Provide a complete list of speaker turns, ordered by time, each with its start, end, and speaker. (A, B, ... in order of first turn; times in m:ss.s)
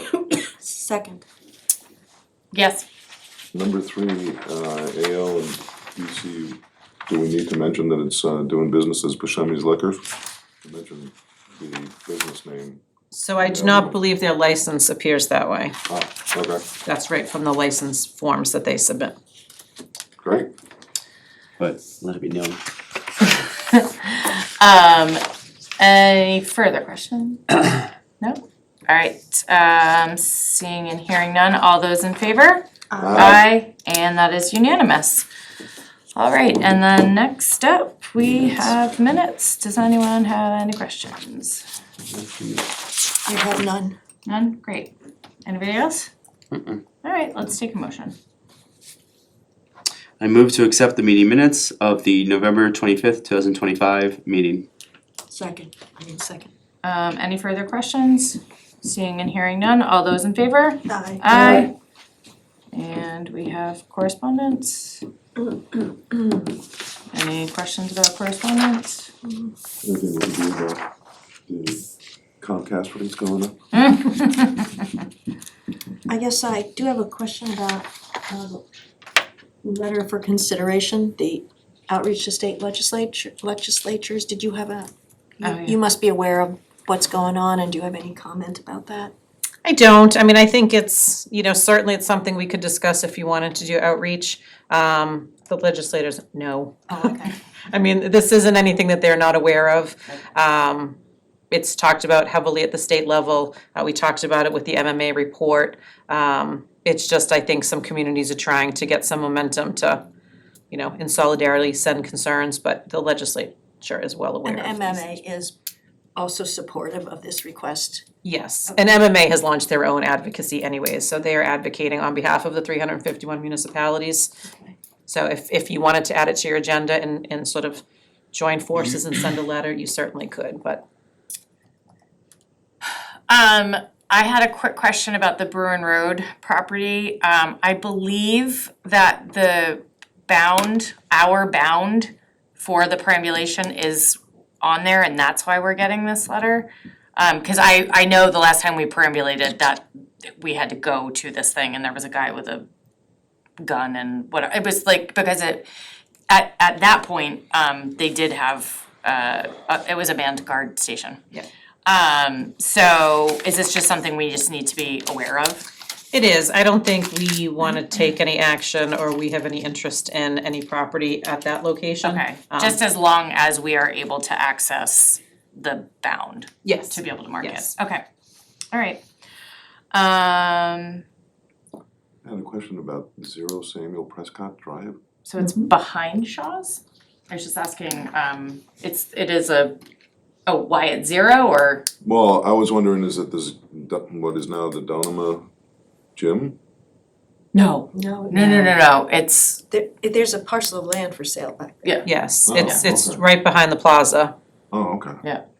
0:00.4-0:01.2 A
0:02.5-0:02.8 B
0:03.5-0:10.1 C
0:10.6-0:12.8 C
0:13.1-0:15.8 D
0:13.4-0:14.0 C
0:15.9-0:16.6 C
0:16.8-0:19.2 D
0:20.2-0:20.5 C
0:21.6-0:22.6 E
0:23.7-0:25.2 B
0:25.8-0:27.4 B
0:28.2-0:32.6 B
0:32.9-0:33.3 A
0:33.0-0:33.4 C
0:33.2-0:35.2 B
0:36.1-0:41.6 B
0:42.1-0:42.6 E
0:43.2-0:44.0 A
0:44.2-0:44.9 B
0:45.4-0:46.1 B
0:46.5-0:46.8 E
0:47.0-0:48.1 B
0:50.2-0:54.6 E
0:55.3-0:56.5 A
0:56.8-1:01.7 B
1:00.9-1:01.7 A
1:02.7-1:05.0 B
1:05.4-1:06.4 A
1:07.1-1:09.1 B
1:09.2-1:09.5 A
1:09.8-1:10.8 C
1:11.5-1:11.8 C
1:12.4-1:13.6 C
1:13.7-1:14.8 B
1:16.1-1:18.6 A
1:19.6-1:29.1 A
1:25.4-1:25.8 B
1:29.6-1:41.0 D
1:36.9-1:37.3 A
1:41.5-1:50.0 D
1:50.7-1:55.2 D
1:54.4-1:55.5 A
1:56.2-1:58.0 A
1:58.2-2:04.3 D
2:05.0-2:10.8 D
2:13.3-2:32.6 B
2:33.6-2:35.7 B
2:36.3-2:41.2 B
2:41.8-2:45.6 B
2:46.1-2:52.8 D
2:52.0-2:58.0 B
2:56.6-2:57.7 D
2:58.7-2:59.0 B
2:59.9-3:01.0 B
3:02.2-3:05.0 C
3:05.2-3:09.8 B
3:05.4-3:05.7 A
3:10.5-3:11.8 B
3:12.0-3:15.4 C
3:16.2-3:16.6 C
3:17.5-3:19.6 B
3:17.9-3:18.6 A
3:19.7-3:21.9 A
3:22.0-3:24.3 D
3:22.4-3:23.2 C
3:24.7-3:25.2 C